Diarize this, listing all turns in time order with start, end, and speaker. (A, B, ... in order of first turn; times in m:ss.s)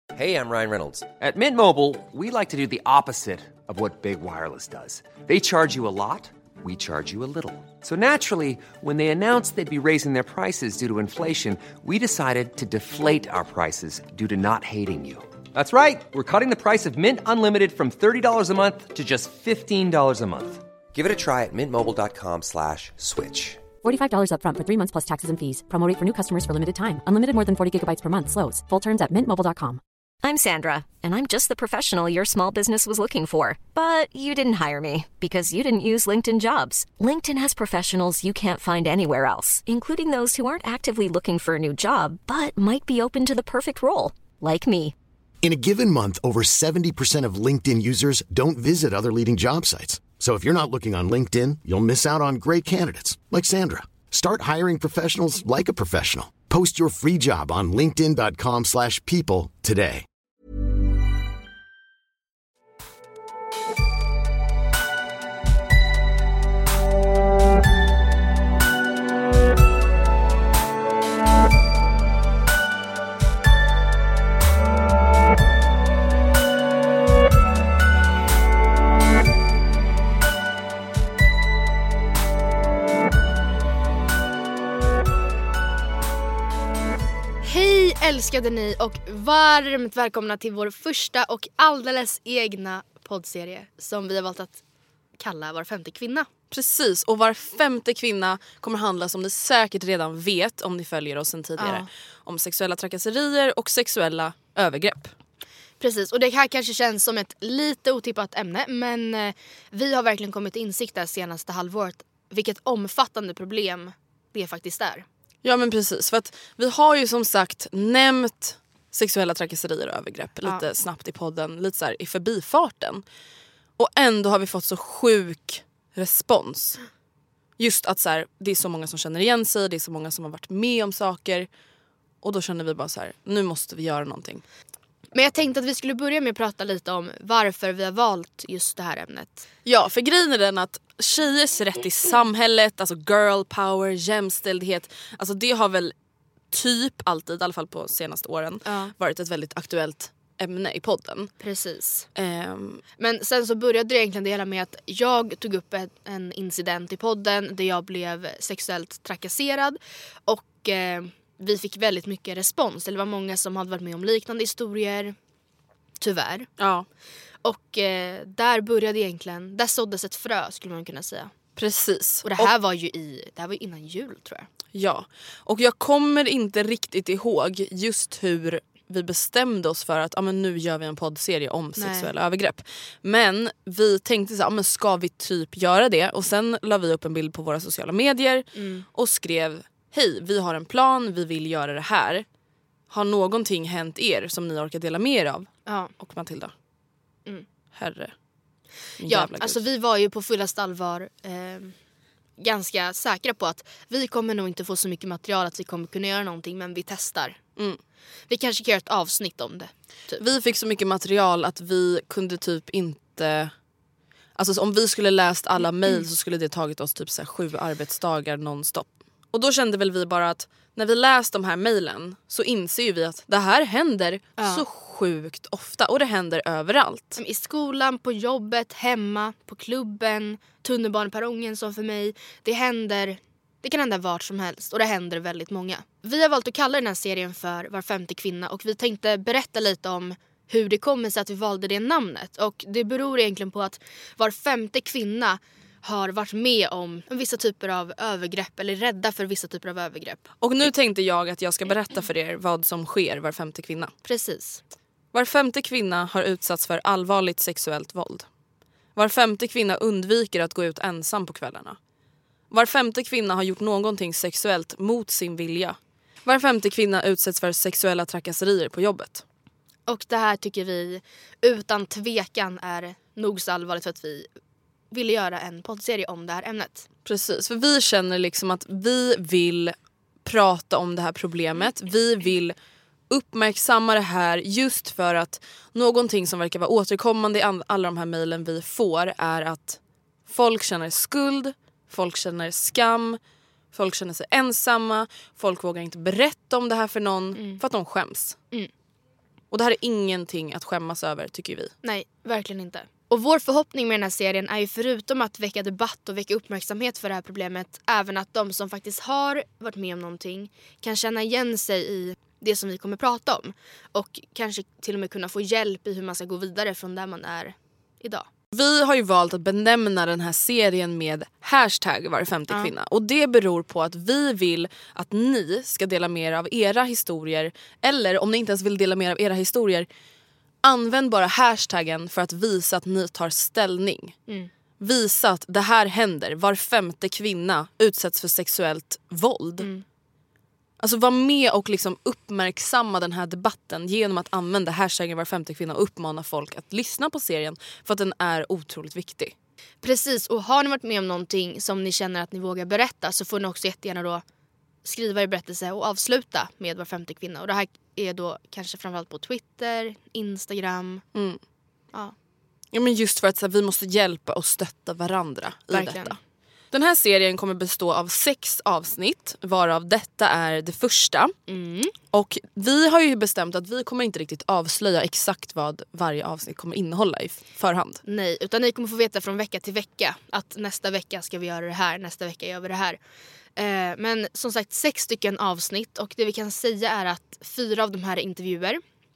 0:00.1-0:23.6 A
0:23.8-0:29.8 B
0:30.2-0:44.9 C
0:45.4-1:00.0 D
1:27.4-1:34.6 E
1:35.2-1:36.3 E
1:36.5-1:45.1 F
1:41.6-1:41.9 E
1:45.8-1:55.0 E
1:55.4-2:03.0 F
2:03.8-2:06.8 F
2:07.6-2:11.5 F
2:12.2-2:14.4 F
2:15.1-2:19.4 E
2:19.6-2:25.9 F
2:26.5-2:31.3 F
2:28.6-2:28.9 E
2:31.4-2:32.1 E
2:32.2-2:32.8 F
2:33.0-2:45.2 E
2:46.0-2:46.5 E
2:46.6-2:46.9 F
2:47.4-2:51.3 E
2:51.6-2:52.5 F
2:52.2-2:54.5 E
2:54.7-3:12.2 F
3:01.8-3:02.1 E
3:08.6-3:08.8 E
3:12.9-3:16.5 F
3:17.7-3:18.1 F
3:19.0-3:19.6 F
3:19.0-3:21.7 E
3:22.4-3:27.4 E
3:28.3-3:30.2 E
3:30.2-3:33.5 F
3:34.4-3:47.2 F
3:44.4-3:44.6 E
3:47.2-4:10.2 E
4:10.4-4:13.9 F
4:14.0-4:14.6 E
4:15.1-4:18.3 F
4:19.0-4:21.8 F
4:22.5-4:29.2 F
4:29.9-4:34.3 E
4:34.9-4:36.8 E
4:37.0-4:42.6 F
4:43.1-4:53.2 F
4:53.7-4:58.4 F
4:57.4-4:57.6 E
4:59.5-5:01.7 F
5:01.8-5:18.3 E
5:18.5-5:29.9 F
5:30.6-5:34.2 F
5:34.8-5:39.7 F
5:39.6-5:39.8 E
5:40.8-5:49.3 F
5:49.8-5:54.2 E
5:54.8-6:01.0 E
6:02.7-6:06.2 F
6:05.7-6:06.2 E
6:06.7-6:11.3 F
6:11.5-6:11.9 E
6:12.1-6:18.0 F
6:18.0-6:23.0 E
6:23.6-6:28.8 E